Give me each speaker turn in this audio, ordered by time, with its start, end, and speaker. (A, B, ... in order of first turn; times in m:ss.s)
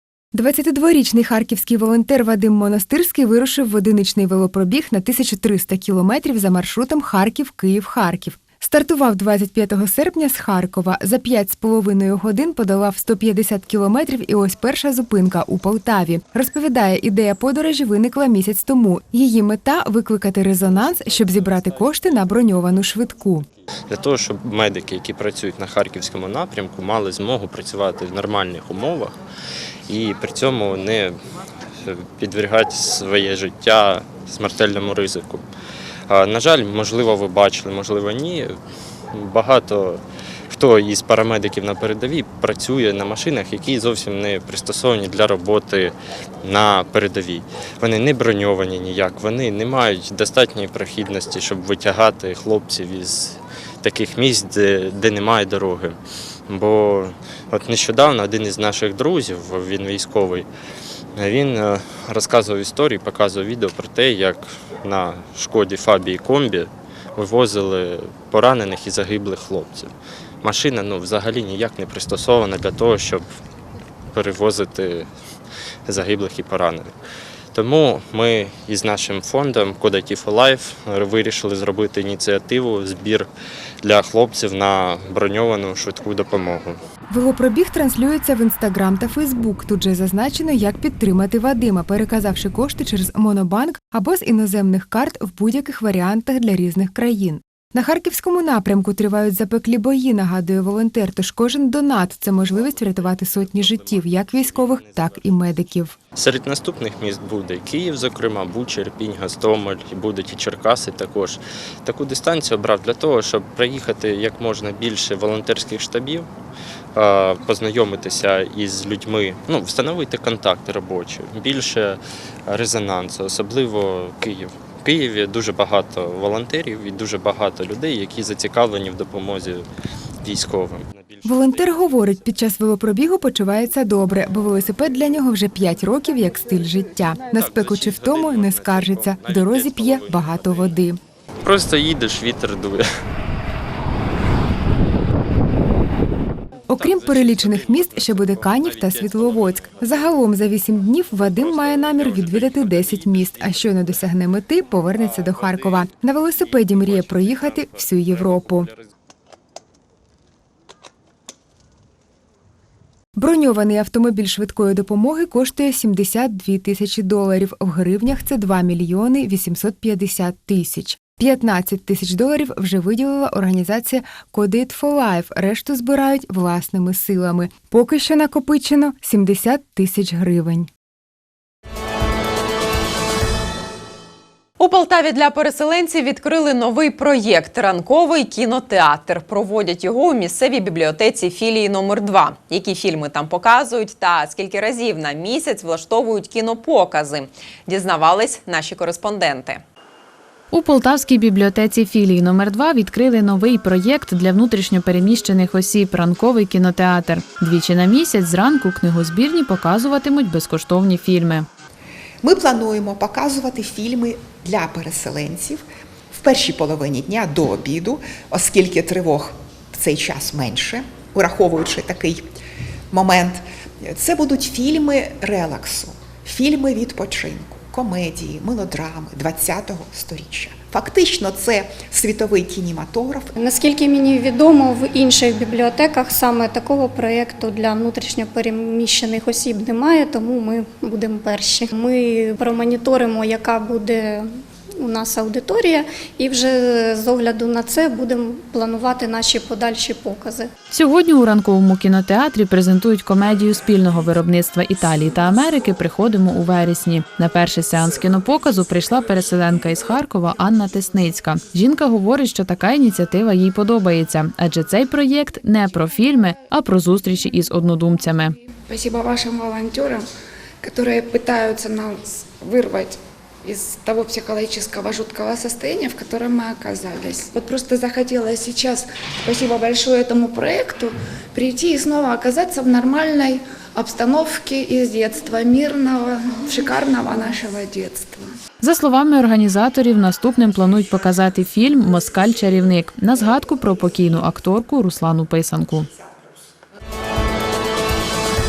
0:00.3-0:23.4 A
0:23.9-0:29.2 B
0:29.9-0:31.2 B
0:31.8-0:35.4 B
0:36.1-0:38.5 B
0:39.1-0:56.0 B
0:56.5-1:00.5 B
1:01.2-1:13.2 B
1:14.1-1:15.1 B
1:15.8-1:16.9 B
1:17.5-1:23.3 B
1:23.8-1:26.8 B
1:27.1-1:46.0 A
1:42.4-1:45.3 B
1:46.2-1:56.2 B
1:56.9-2:09.7 B
2:10.2-2:12.3 B
2:11.2-2:21.0 A
2:17.2-2:20.8 B
2:21.4-2:22.8 B
2:26.7-2:38.7 A
2:26.7-2:30.2 B
2:31.2-2:34.1 B
2:34.9-2:38.8 B
2:43.2-3:00.7 A
3:04.6-3:19.6 C
3:20.5-3:31.5 D
3:32.2-3:42.2 E
3:42.9-3:53.3 E
3:53.4-4:04.3 F
4:04.8-4:10.5 F
4:10.7-4:28.3 D
4:28.7-4:30.0 G
4:30.6-4:48.3 G
4:48.6-4:55.9 D